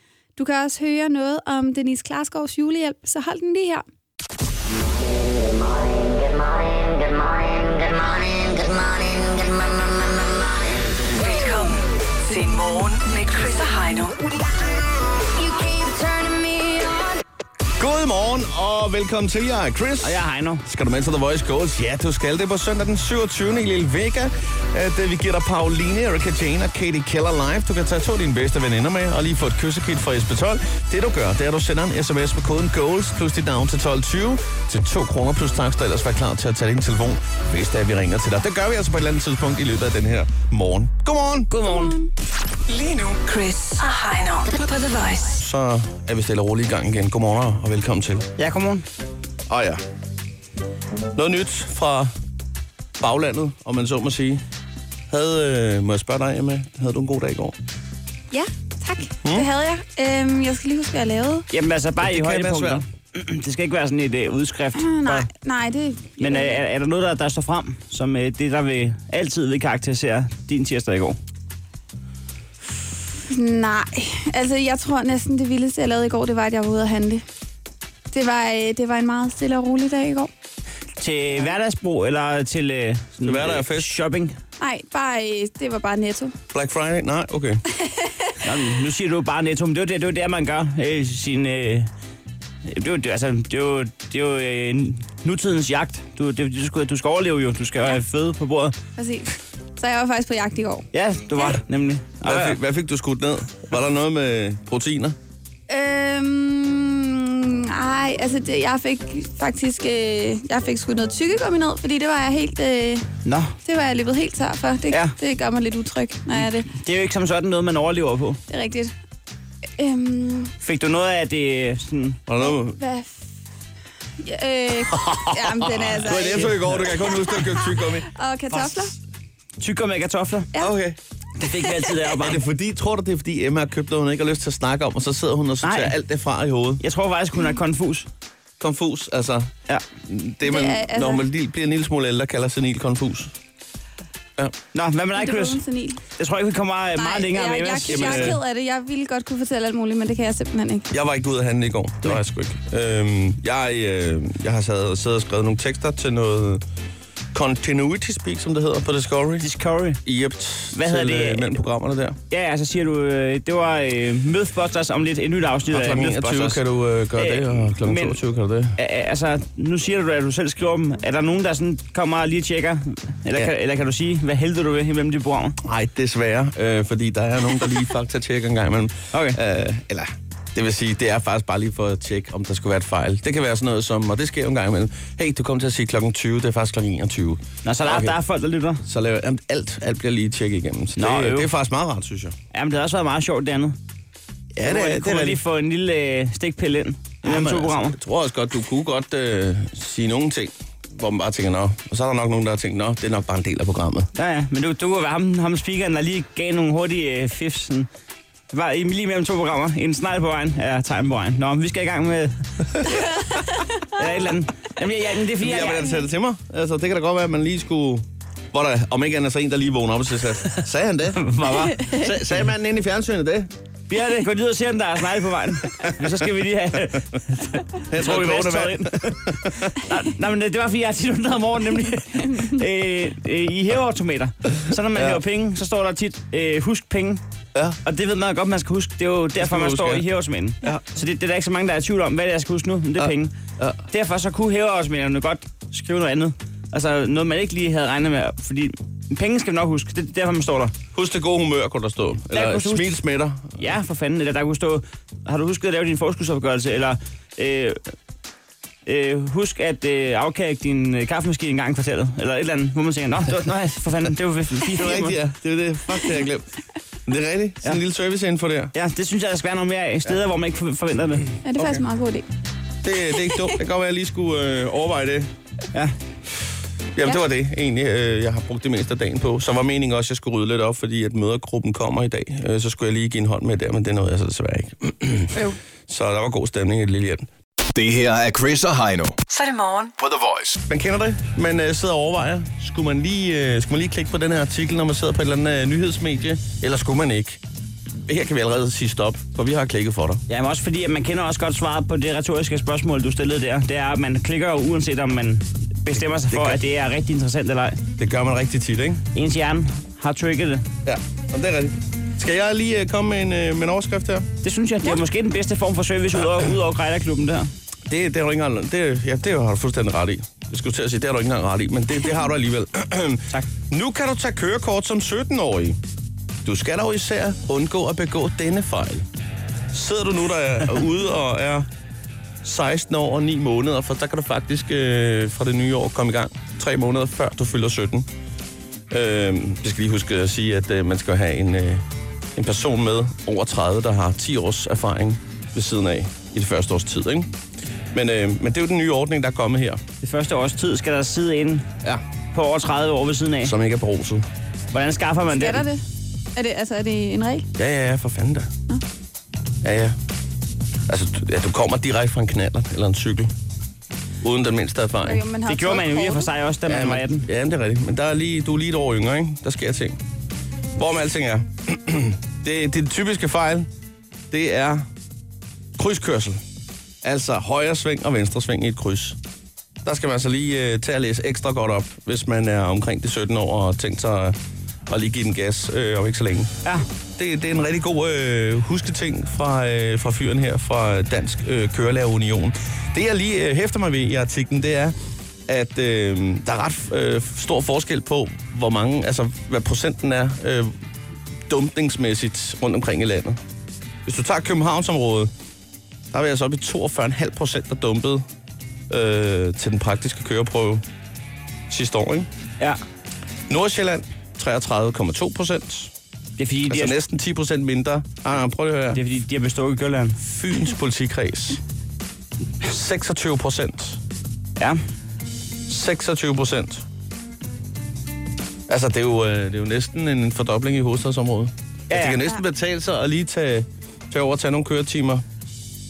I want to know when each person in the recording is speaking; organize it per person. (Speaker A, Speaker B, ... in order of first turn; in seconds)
Speaker A: 0.4-3.8, 41.6-42.1, 58.3-61.5, 64.8-66.6, 73.3-77.2, 78.1-80.3, 84.6-86.3, 99.0-101.6, 105.7-113.1, 113.7-116.7, 118.5-119.0, 119.8-120.5, 122.4-123.2, 124.2-128.9, 140.4-141.2, 145.2-146.0, 147.0-150.9, 271.4-272.3, 355.3-355.8, 356.4-357.5, 365.0-366.3
Speaker B: 5.3-10.9, 15.4-17.2
Speaker C: 11.2-14.5, 42.7-45.4, 289.3-289.9
Speaker D: 17.8-41.5, 45.4-48.3, 49.5-49.8, 51.1-52.1, 53.0-54.4, 55.1-57.6, 62.0-62.8, 83.2-84.0, 86.5-87.6, 102.2-105.2, 122.3-122.8, 124.9-128.9, 130.6-131.0, 132.1-136.8, 138.6-139.5, 140.1-143.3, 147.9-148.4, 150.9-156.6, 157.3-159.5, 160.1-162.2, 165.7-168.8, 175.6-188.2, 188.8-192.4, 194.5-195.4, 197.2-204.1, 215.4-223.5, 227.9-229.7, 234.9-235.2, 239.4-240.0, 243.0-243.8, 250.9-253.7, 264.8-266.5, 267.1-268.7, 272.8-275.3, 276.9-287.3, 290.7-297.4, 298.1-300.2, 306.3-306.6, 308.0-309.1, 310.9-314.3, 317.9-325.8, 326.4-329.1, 329.7-331.7, 332.4-338.1, 338.9-347.3, 347.9-349.8, 353.4-354.2, 357.6-358.5, 359.6-360.0, 360.9-363.3, 364.2-365.2, 366.7-370.0, 370.8-373.7, 374.3-374.9, 375.8-376.4, 377.0-379.2, 379.8-384.4, 384.9-386.5, 387.2-394.9, 395.5-400.7, 401.5-403.4, 404.1-405.3, 406.1-408.2, 408.9-410.8, 411.7-412.3, 413.5-415.9, 416.7-419.0, 420.2-421.6, 422.6-424.0, 425.7-426.9, 428.7-435.2
Speaker E: 20.0-20.6, 41.5-42.0, 48.4-48.9, 61.5-65.3, 66.2-71.2, 81.0-84.4, 88.4-91.9, 92.7-98.8, 100.9-102.6, 113.2-113.5, 116.7-118.4, 120.6-122.2, 126.1-126.9, 129.6-130.5, 131.4-132.4, 135.6-135.9, 136.8-138.1, 144.7-145.6, 146.2-148.4, 159.4-160.0, 160.7-161.6, 162.3-166.6, 167.2-168.2, 168.8-175.6, 179.1-179.4, 187.7-188.8, 191.0-191.5, 192.5-193.8, 194.6-198.0, 204.2-207.9, 208.5-213.3, 213.9-216.0, 221.2-221.9, 223.9-237.2, 237.8-243.3, 243.9-250.8, 252.3-253.0, 253.6-257.8, 258.9-265.2, 268.8-271.3, 300.3-307.8, 309.1-310.7, 314.4-317.5, 350.0-351.7, 352.3-353.6, 354.7-355.7, 365.5-367.3, 416.4-417.0, 418.9-420.2, 431.9-432.2
Speaker F: 287.7-289.2, 290.0-290.6